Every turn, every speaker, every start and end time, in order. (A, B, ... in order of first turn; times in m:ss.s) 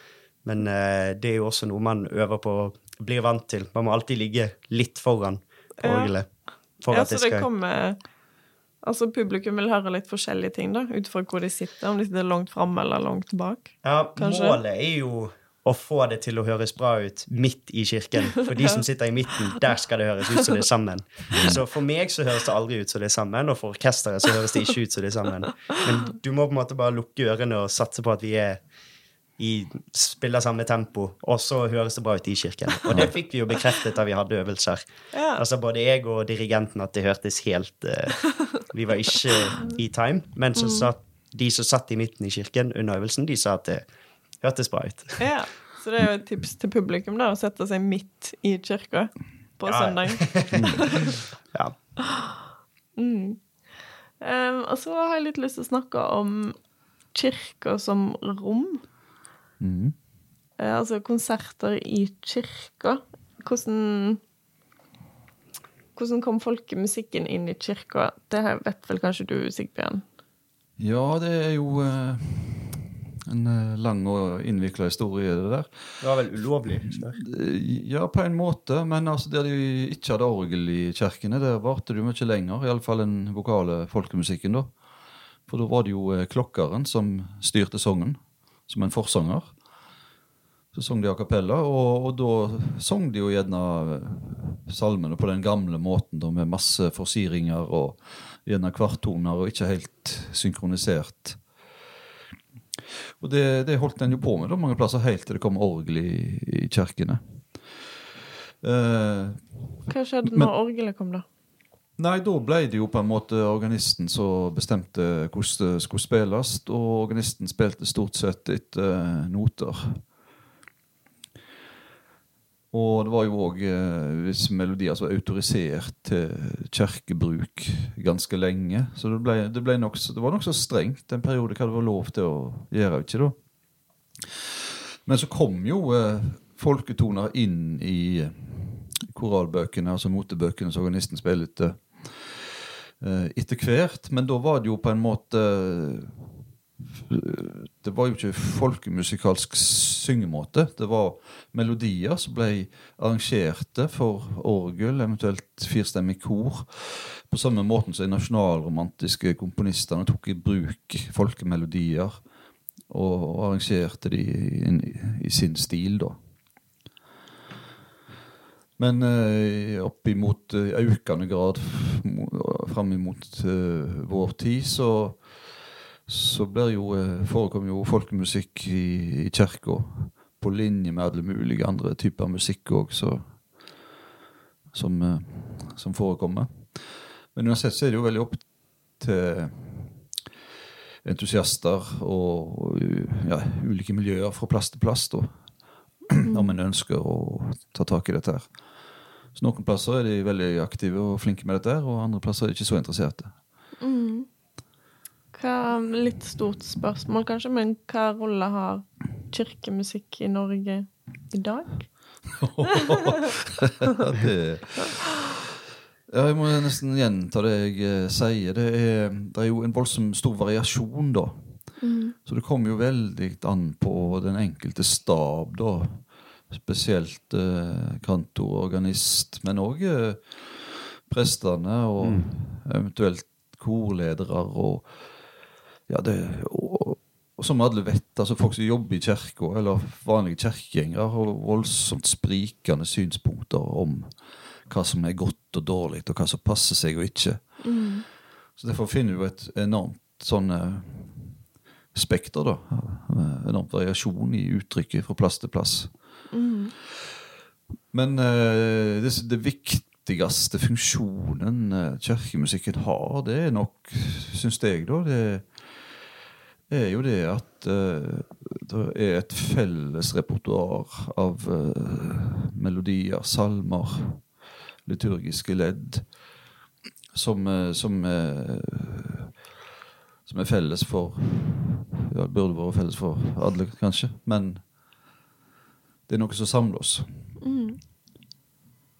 0:00.4-0:06.3 A
0:05.8-0:06.1 B
0:06.8-0:07.5 A
0:06.9-0:08.0 B
0:08.8-0:14.6 B
0:13.8-0:28.6 A
0:21.3-0:21.6 C
0:29.4-0:34.8 A
0:35.1-0:35.4 B
0:35.3-0:43.8 A
0:40.5-0:40.9 B
0:44.4-0:45.2 A
0:45.2-0:51.2 B
0:49.6-0:50.8 A
0:50.5-0:50.8 C
0:53.0-0:53.4 B
0:54.2-0:56.6 B
0:57.1-0:58.8 B
0:59.6-0:59.9 C
1:00.6-1:04.2 B
1:06.0-1:10.0 B
1:10.8-1:16.0 C
1:16.0-1:17.2 A
1:16.9-1:24.7 C
1:25.5-1:29.6 C
1:30.7-1:41.4 C
1:43.2-1:47.9 C
1:48.6-1:49.7 C
1:49.9-1:51.2 B
1:50.2-1:50.5 C
1:52.0-2:00.0 C
2:02.7-2:13.4 C
2:15.0-2:42.3 C
2:42.9-2:46.2 C
2:48.8-3:03.4 C
3:04.7-3:10.0 C
3:11.0-3:15.5 C
3:16.1-3:23.4 C
3:16.2-3:16.5 B
3:23.8-3:24.3 B
3:25.3-3:32.3 B
3:32.3-3:35.4 C
3:36.1-3:41.7 C
3:41.8-3:42.1 B
3:42.2-3:55.1 C
3:52.0-3:52.3 A
3:55.9-4:07.6 C
4:07.6-4:08.0 B
4:08.6-4:11.4 C
4:11.9-4:16.2 C
4:16.3-4:16.7 B
4:17.9-4:26.0 C
4:26.7-4:36.2 C
4:37.1-4:39.3 C
4:40.2-4:44.6 C
4:46.1-4:47.3 C
4:47.4-4:47.8 B